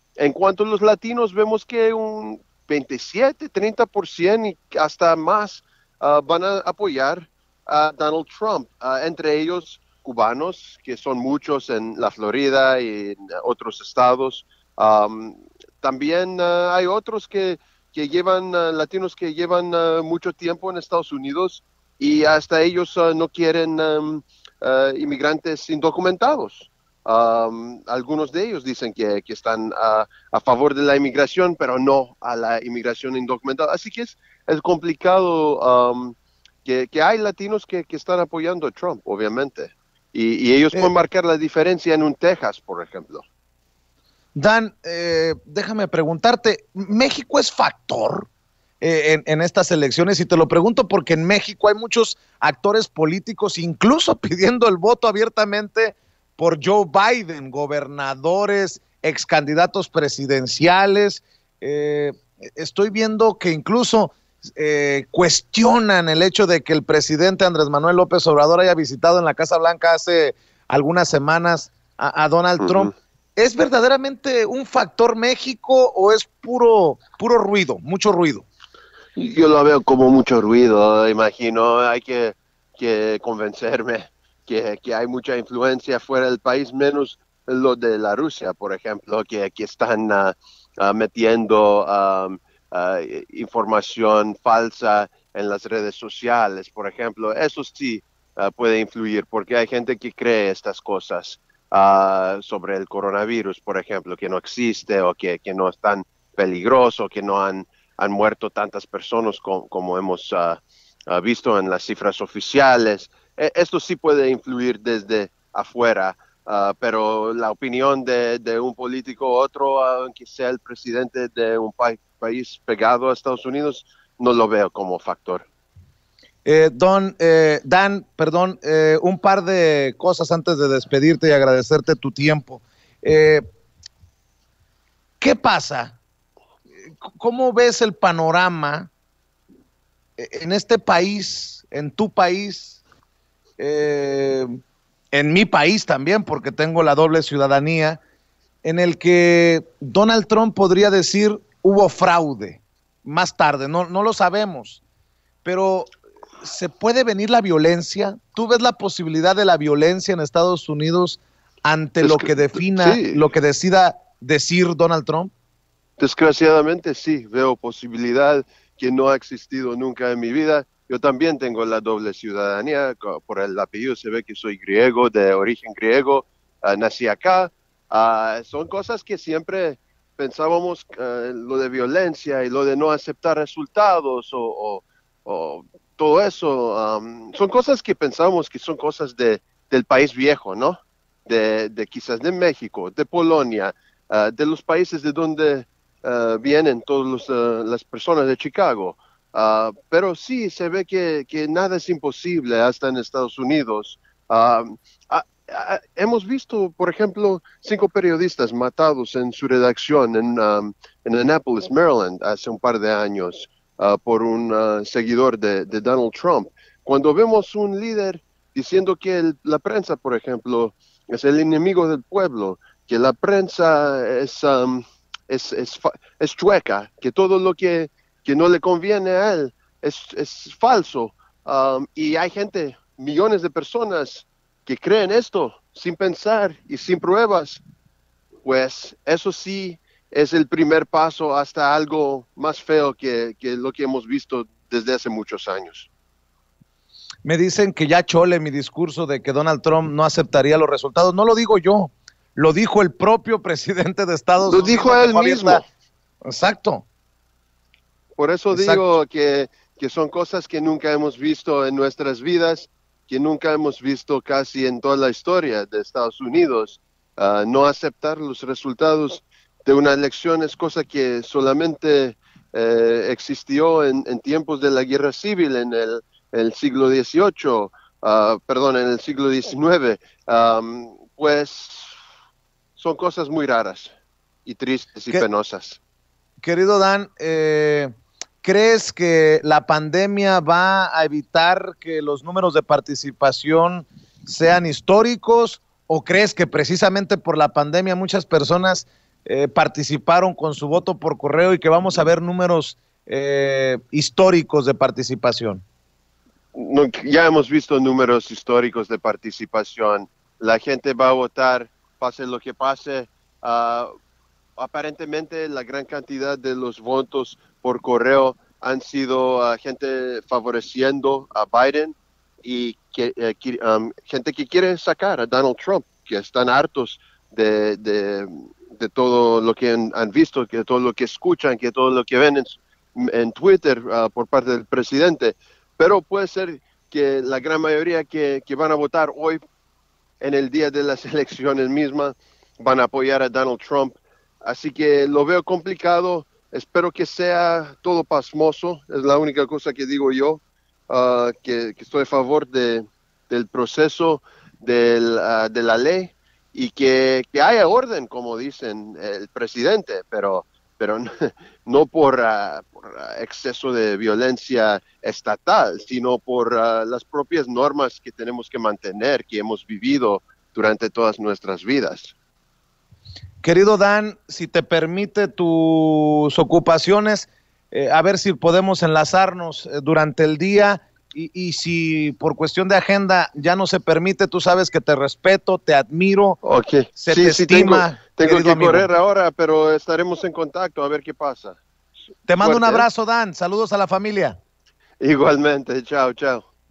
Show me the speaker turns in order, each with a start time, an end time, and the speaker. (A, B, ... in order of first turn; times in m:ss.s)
0:00.2-0:43.2 A
0:44.4-0:48.3 B
0:48.8-1:18.5 B
1:12.6-1:12.9 A
1:19.2-2:05.4 A
2:06.4-2:13.4 B
2:15.2-2:16.0 B
2:17.1-2:18.9 B
2:20.2-2:22.8 B
2:23.6-2:24.6 B
2:25.1-2:28.0 B
2:28.6-2:34.8 B
2:35.4-2:35.9 B
2:36.4-2:45.3 B
2:42.0-2:43.2 A
2:46.0-3:57.6 A
3:58.4-4:05.9 A
4:07.2-4:15.6 B
4:14.4-4:15.6 A
4:16.2-4:16.9 B
4:18.2-4:42.0 A
4:18.5-4:18.8 B
4:42.8-4:43.9 A
4:44.5-4:45.8 A
4:46.4-4:47.9 B
4:48.4-5:05.6 B
5:06.5-5:13.9 A
5:14.6-5:39.4 A
5:40.2-6:12.1 A
6:13.4-6:26.4 B
6:26.4-6:31.6 A
6:27.0-6:28.9 B
6:32.3-6:34.4 B
6:32.4-6:32.9 A
6:35.0-6:36.4 A